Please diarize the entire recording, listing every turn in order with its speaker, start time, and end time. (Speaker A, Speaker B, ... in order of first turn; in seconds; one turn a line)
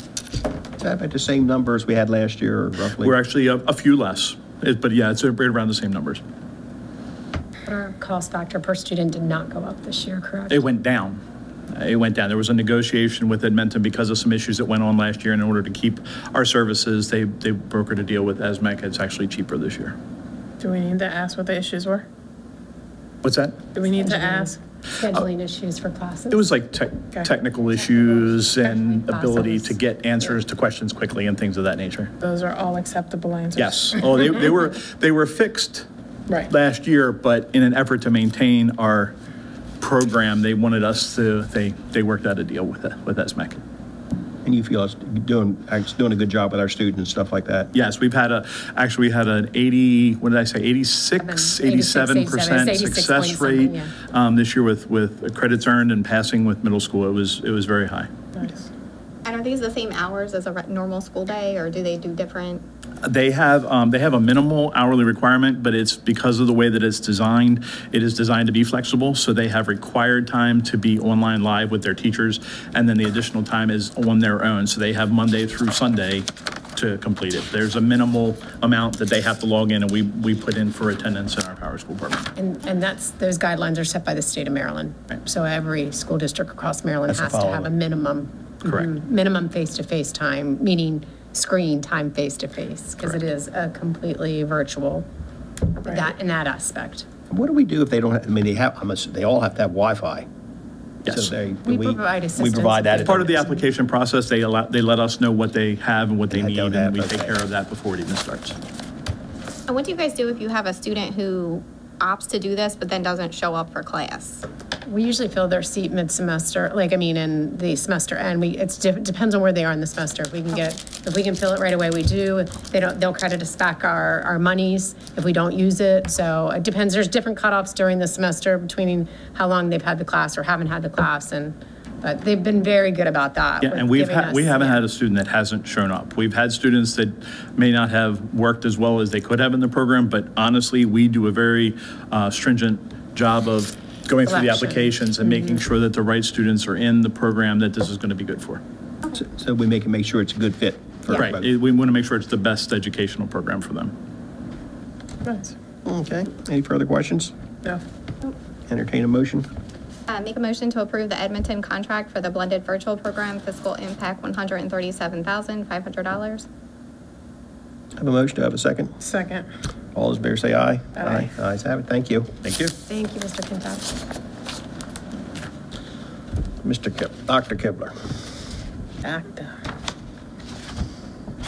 Speaker A: 0.8-3.1
Speaker B: 3.0-6.2
Speaker C: 7.7-10.6
Speaker B: 10.5-11.2
Speaker B: 11.7-19.9
Speaker D: 20.6-22.1
Speaker B: 23.2-23.6
Speaker D: 23.7-24.6
Speaker C: 24.0-26.4
Speaker B: 26.3-32.1
Speaker C: 28.0-29.8
Speaker D: 32.2-34.4
Speaker B: 33.5-35.9
Speaker B: 36.5-39.1
Speaker B: 39.8-43.6
Speaker A: 44.4-47.7
Speaker B: 47.7-58.1
Speaker C: 51.2-53.9
Speaker D: 58.4-58.7
Speaker E: 59.2-62.6
Speaker B: 63.0-82.3
Speaker C: 82.3-95.0
Speaker A: 87.1-87.7
Speaker C: 95.8-97.1
Speaker A: 97.3-100.3
Speaker B: 101.0-101.3
Speaker A: 101.1-103.3
Speaker C: 101.6-103.6
Speaker B: 103.0-108.5
Speaker A: 106.3-107.3
Speaker E: 109.7-114.4
Speaker C: 114.8-134.8
Speaker B: 133.6-148.6
Speaker C: 144.3-144.9
Speaker A: 149.1-151.5
Speaker B: 151.1-153.9
Speaker D: 155.2-155.5
Speaker A: 155.8-157.3
Speaker A: 158.7-159.5
Speaker E: 160.1-166.4
Speaker A: 168.0-168.9
Speaker D: 169.0-169.5
Speaker A: 169.9-172.7
Speaker D: 171.0-171.3
Speaker C: 172.9-173.9
Speaker A: 176.6-177.9
Speaker D: 179.0-179.5